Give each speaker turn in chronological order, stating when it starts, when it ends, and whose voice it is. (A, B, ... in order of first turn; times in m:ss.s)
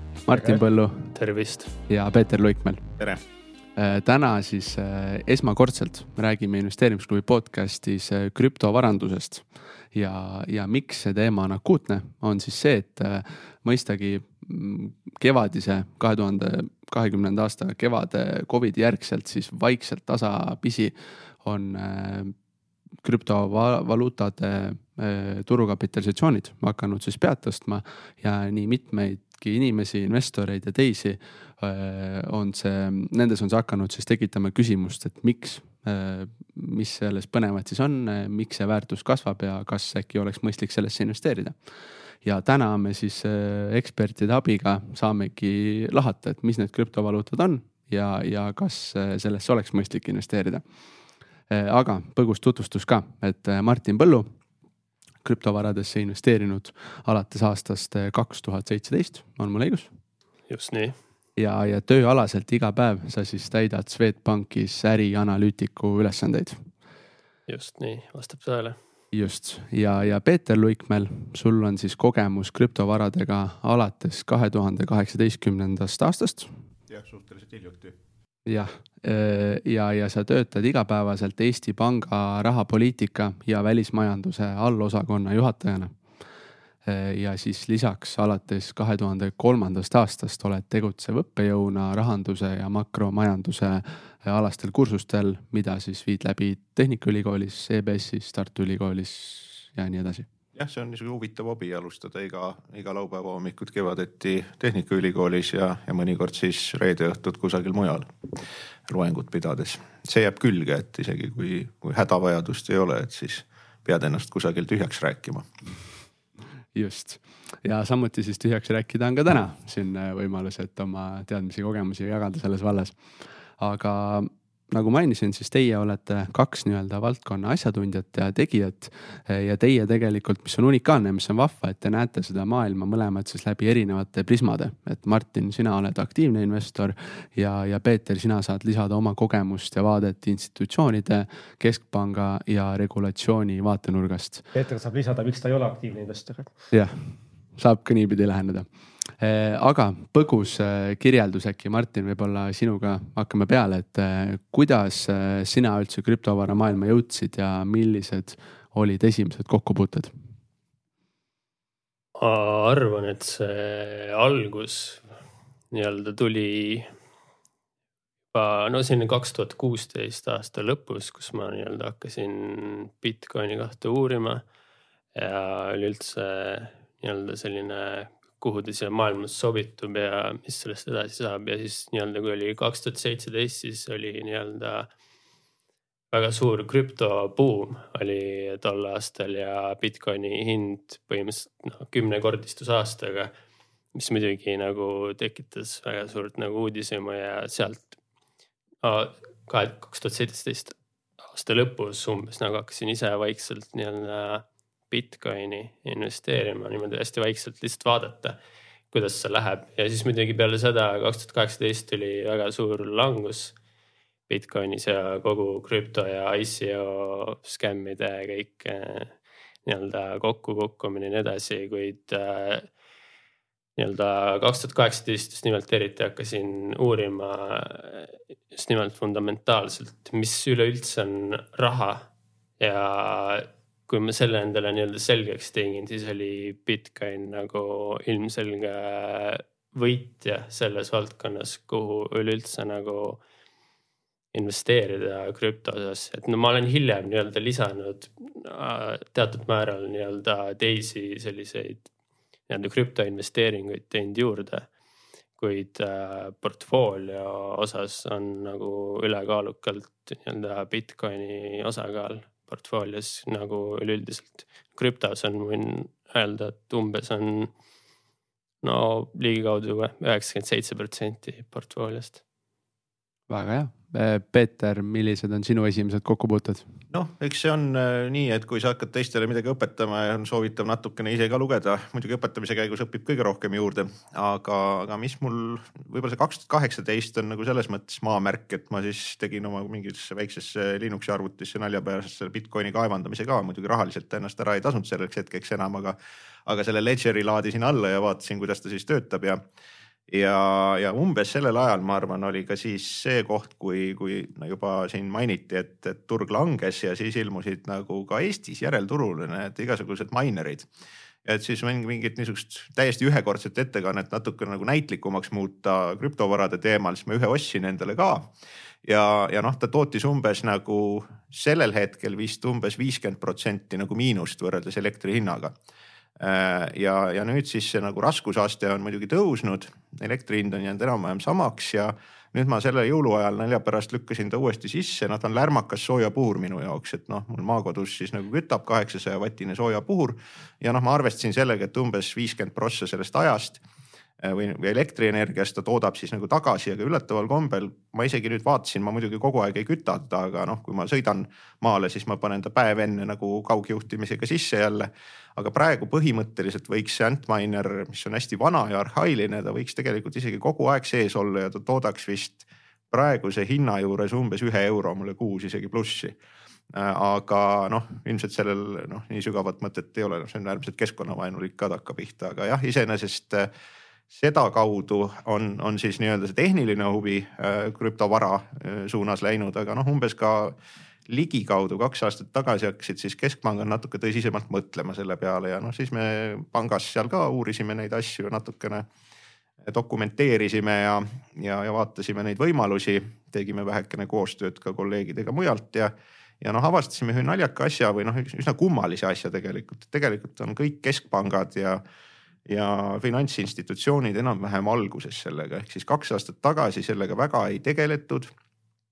0:00.2-0:01.1 A
0:00.3-0:00.6 B
0:01.1-0:01.7 C
0:01.9-0:02.8 A
0:03.8-0:22.3 A
0:23.0-0:41.6 A
0:42.2-0:50.6 A
0:51.5-0:54.3 A
0:55.2-0:59.9 A
1:00.5-1:01.0 C
1:01.4-1:06.7 A
1:07.5-1:08.8 C
1:09.1-1:16.5 A
1:16.9-1:18.0 D
1:18.4-1:26.0 A
1:26.8-1:40.2 A
1:40.6-1:48.1 D
1:48.9-1:55.5 D
1:56.7-2:03.0 A
2:03.6-2:24.5 A
2:24.5-2:26.5 B
2:26.7-2:40.1 A
2:42.2-2:45.0 C
2:45.7-2:46.9 C
2:48.3-2:54.4 C
2:55.1-3:04.9 C
3:06.1-3:13.3 C
3:13.9-3:17.9 C
3:18.8-3:28.4 C
3:28.9-3:33.5 C
3:34.3-3:39.1 C
3:39.6-3:42.6 C
3:43.8-3:52.0 C
3:52.6-4:03.2 C
4:04.3-4:11.9 C
4:12.5-4:14.7 C
4:15.4-4:27.5 C
4:28.6-4:32.2 C
4:33.3-4:36.7 A
4:36.9-4:59.4 D
5:00.1-5:10.7 D
5:11.2-5:18.3 D
5:18.8-5:25.6 D
5:26.2-5:43.6 D
5:44.2-6:06.2 D
6:06.7-6:13.5 D
6:14.1-6:20.6 D
6:21.1-6:28.9 D
6:29.6-6:41.8 D
6:42.5-6:48.3 D